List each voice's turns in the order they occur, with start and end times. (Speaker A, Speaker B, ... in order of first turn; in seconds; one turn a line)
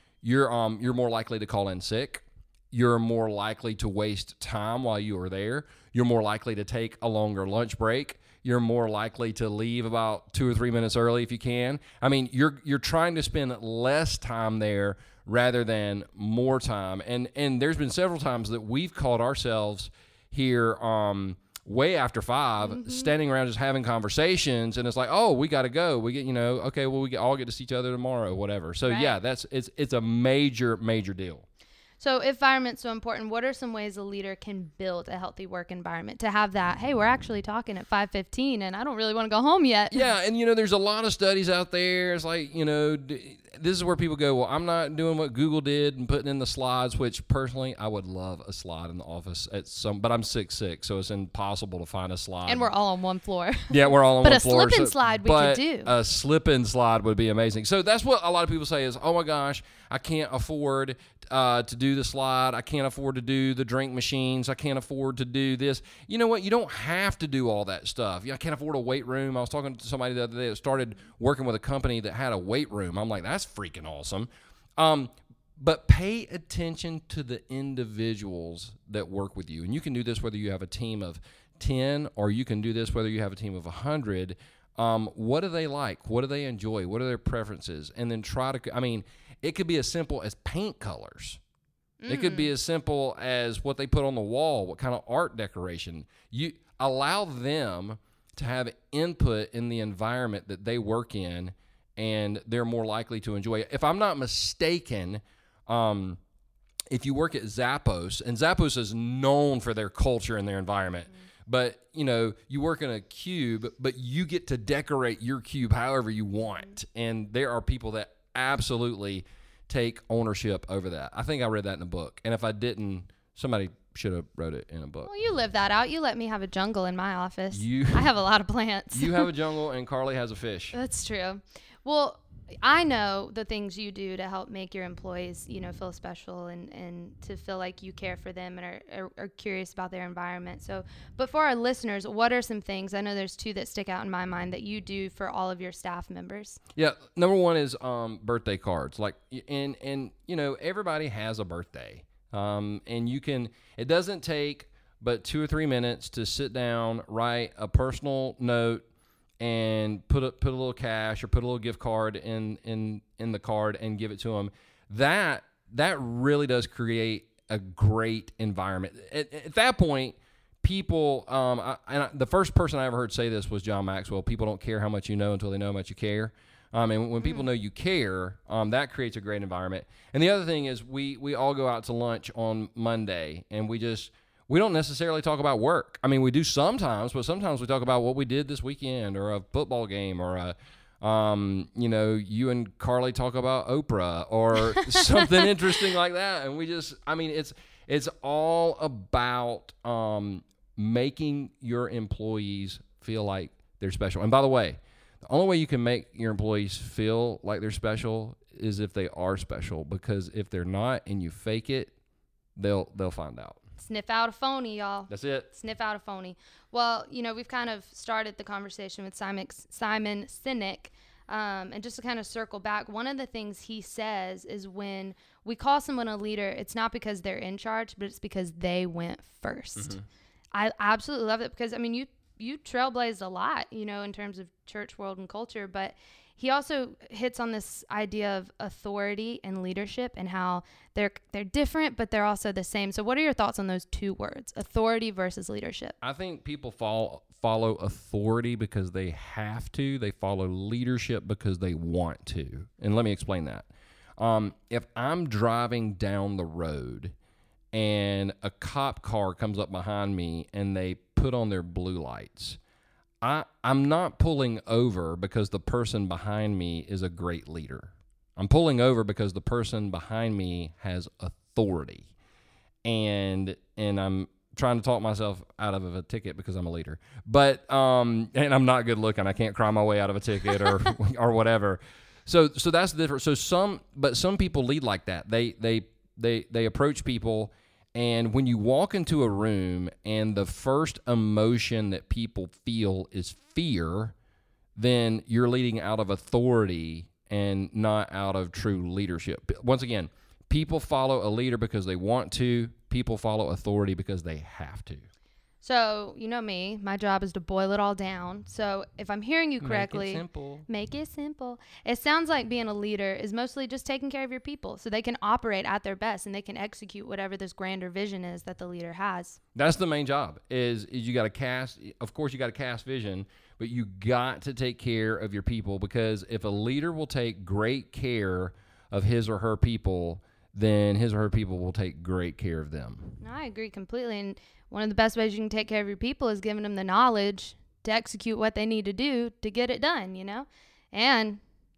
Speaker A: 0.2-31.4
Speaker B: 22.6-23.1
Speaker B: 28.9-29.2
Speaker B: 32.0-40.0
Speaker A: 39.9-52.7
Speaker B: 52.5-55.9
Speaker A: 53.7-91.4
Speaker B: 92.0-92.5
Speaker A: 92.1-106.2
Speaker A: 106.9-125.1
Speaker B: 125.0-129.3
Speaker A: 127.5-128.1
Speaker A: 128.9-130.8
Speaker B: 130.7-146.6
Speaker A: 146.8-158.8
Speaker A: 159.4-211.9
Speaker A: 212.6-213.6
Speaker B: 213.8-229.9
Speaker A: 215.1-215.5
Speaker A: 229.8-230.0
Speaker B: 230.5-245.9
Speaker A: 246.0-253.7
Speaker A: 254.2-257.1
Speaker A: 257.7-262.6
Speaker A: 263.2-272.1
Speaker A: 272.8-294.1
Speaker A: 294.8-305.1
Speaker B: 305.6-319.4
Speaker A: 309.6-310.7
Speaker A: 319.6-333.2
Speaker B: 333.2-341.4